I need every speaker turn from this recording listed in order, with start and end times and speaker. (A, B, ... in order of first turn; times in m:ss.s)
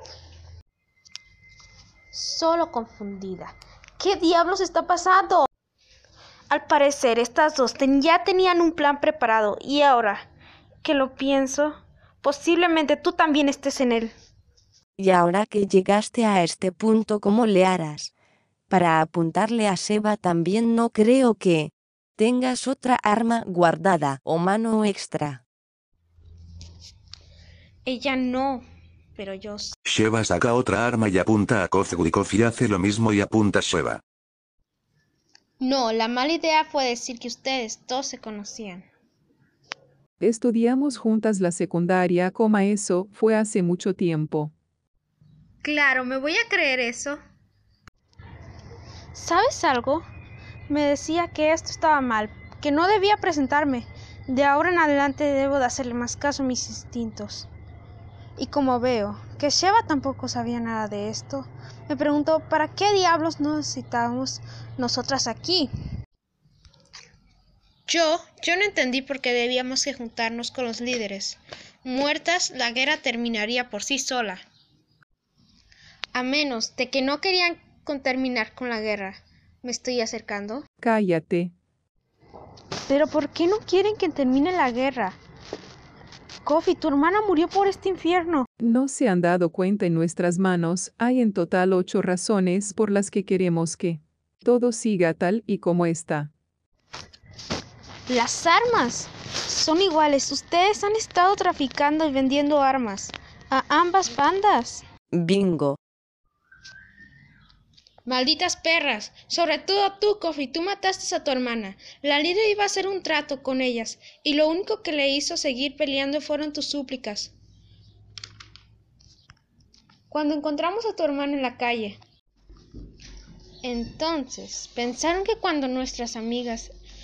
0:02.1-0:05.5 A
0:06.5-0:10.3 A
0:10.8-0:14.1 A
0:15.0-0:18.1 B
0:18.7-0:25.4 B
0:27.8-0:28.6 A
0:29.2-0:29.8 A
0:29.8-0:34.0 C
0:35.6-0:38.9 A
0:40.2-0:44.5 D
0:45.6-0:47.2 A
0:49.1-0:50.0 A
0:50.7-0:57.5 A
0:58.4-1:05.7 A
1:07.9-1:14.4 A
1:16.1-1:20.6 A
1:20.8-1:21.5 D
1:22.9-1:25.2 A
1:26.4-1:28.5 A
1:28.6-1:36.3 D
1:38.1-1:44.8 A
1:45.1-1:45.8 B
1:48.1-1:57.3 A
2:00.1-2:02.0 A
2:03.6-2:06.7 A